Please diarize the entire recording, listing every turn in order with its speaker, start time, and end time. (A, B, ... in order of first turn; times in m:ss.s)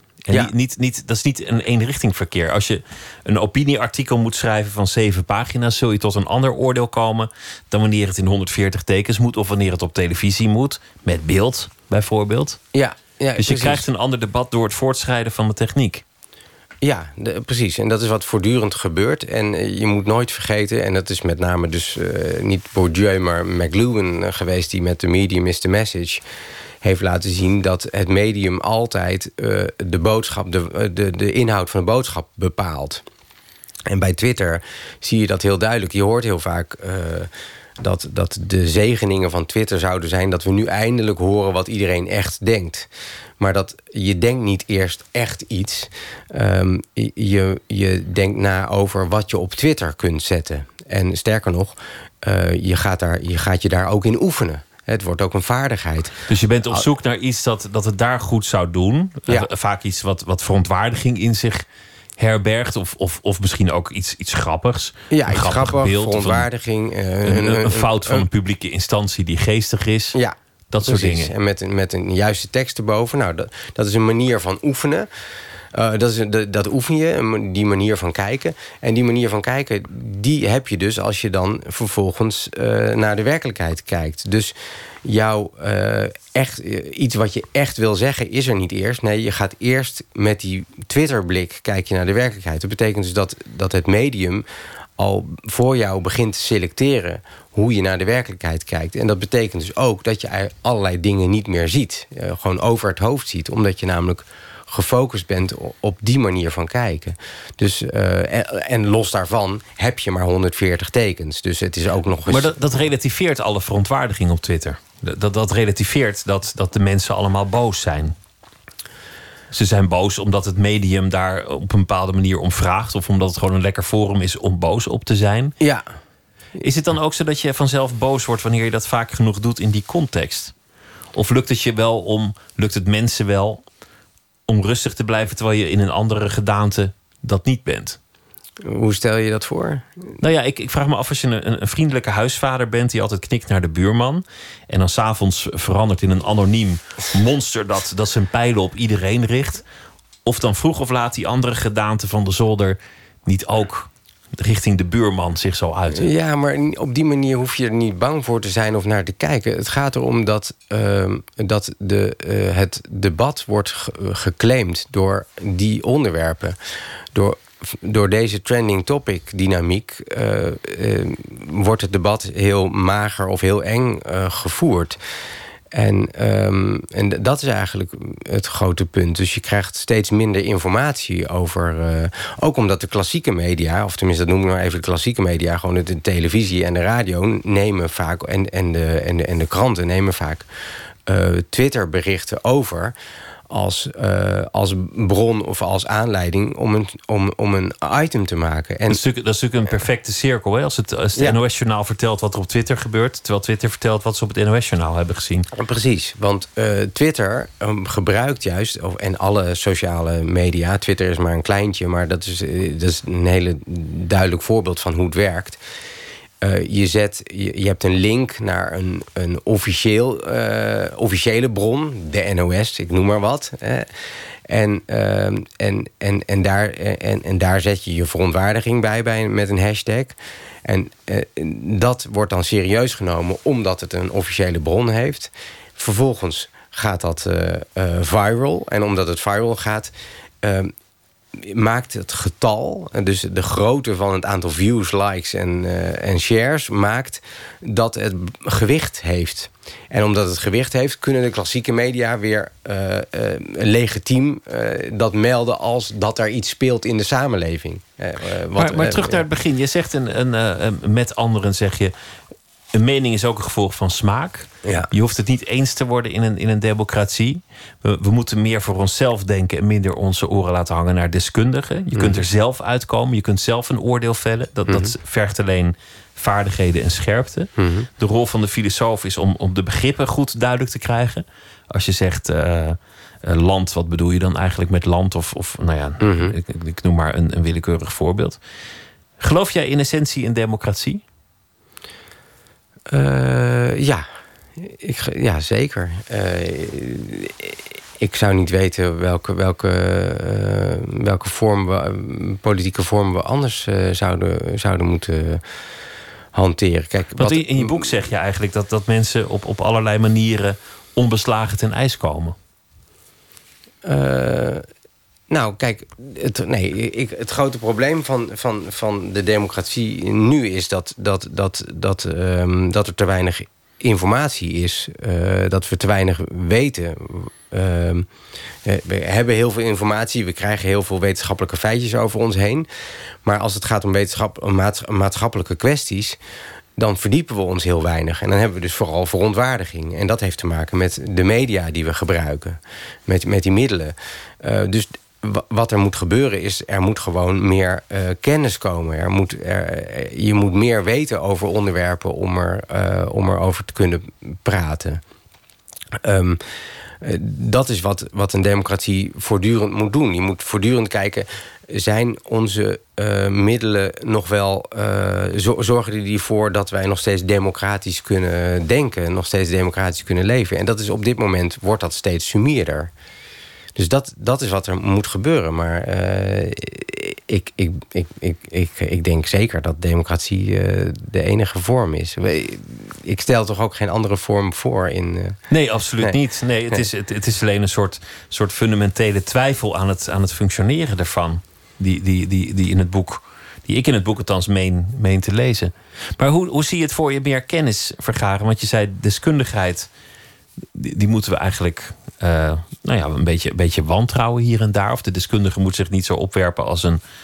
0:00.2-0:12.6 A
0:12.7-0:13.8 B
0:13.4-0:16.0 A
0:16.8-0:26.2 B
0:26.8-0:33.0 B
0:33.9-0:56.2 B
0:56.3-1:01.6 A
1:02.2-1:06.5 A
1:05.1-1:08.3 B
1:07.2-1:10.2 A
1:10.1-1:15.1 B
1:10.7-1:11.3 A
1:15.7-1:34.4 B
1:35.0-1:52.6 B
1:52.3-1:58.2 A
1:59.5-2:05.6 A
2:05.6-2:05.9 B
2:06.6-2:10.5 A
2:11.1-2:13.6 A
2:14.5-2:18.0 A
2:18.6-2:20.0 B
2:20.2-2:29.6 A
2:30.3-2:36.1 A
2:35.9-2:46.6 B
2:47.1-2:55.0 B
2:55.7-3:10.5 B
3:11.1-3:13.0 B
3:13.5-3:19.0 B
3:18.9-3:25.5 A
3:25.5-3:35.6 B
3:36.4-3:43.9 B
3:44.5-4:00.7 B
4:01.3-4:19.2 B
4:18.6-4:21.9 A
4:22.7-4:48.4 A
4:24.6-4:24.9 B
4:31.9-4:32.2 B
4:37.6-4:37.9 B
4:46.0-4:46.4 B
4:49.2-4:51.0 A
4:52.9-5:05.4 B
5:06.3-5:07.9 B
5:07.2-5:12.4 A
5:13.8-5:14.7 B
5:15.3-5:28.1 B
5:28.6-5:32.7 B
5:33.2-5:36.2 B
5:36.8-5:55.0 B
5:56.0-5:56.4 B
5:57.0-6:12.9 B
6:13.8-6:25.4 B
6:25.5-6:39.9 A
6:40.8-6:47.0 A